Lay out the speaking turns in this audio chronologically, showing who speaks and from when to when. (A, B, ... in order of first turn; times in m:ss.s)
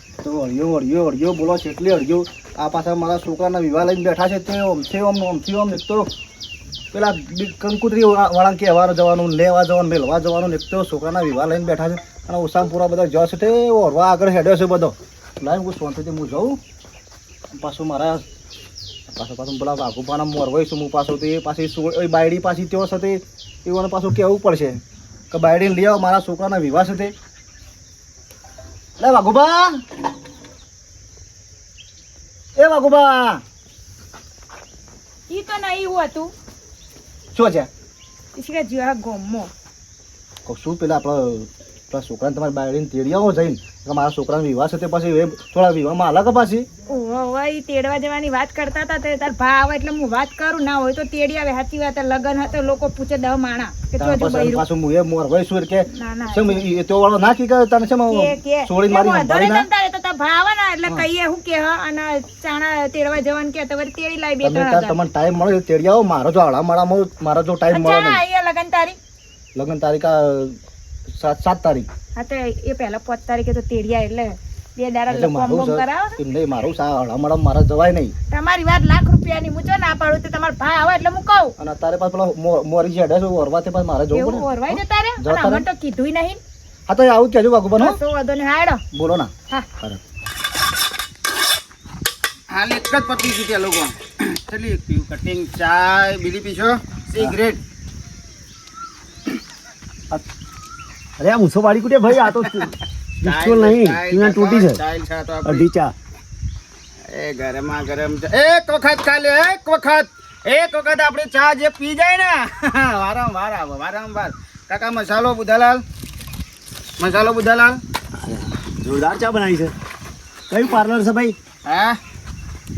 0:00.2-0:06.1 A
0:06.9-0:16.6 A
0:17.5-0:18.2 A
0:19.1-0:24.8 A
0:25.3-0:27.1 A
0:29.0-0:29.8 A
0:32.6-0:33.4 A
0:35.3-0:36.3 B
0:37.3-0:37.7 A
0:38.4-0:39.5 B
0:40.4-0:46.7 A
0:46.9-0:54.6 B
0:54.0-0:59.7 A
0:55.9-0:56.6 B
0:58.1-1:05.0 B
1:04.4-1:08.2 A
1:07.7-1:09.0 B
1:09.6-1:10.6 A
1:11.1-1:11.9 A
1:12.2-1:16.2 B
1:15.1-1:18.1 A
1:18.3-1:21.5 B
1:21.6-1:25.6 A
1:24.1-1:26.4 B
1:26.9-1:28.0 A
1:27.8-1:28.8 B
1:28.9-1:30.0 A
1:32.5-1:37.6 C
1:41.2-1:44.8 D
1:43.2-1:45.7 C
1:45.4-1:46.0 D
1:47.1-1:55.8 C
1:57.0-1:57.8 C
1:58.2-1:59.7 D
2:00.5-2:01.4 D
2:01.6-2:02.0 C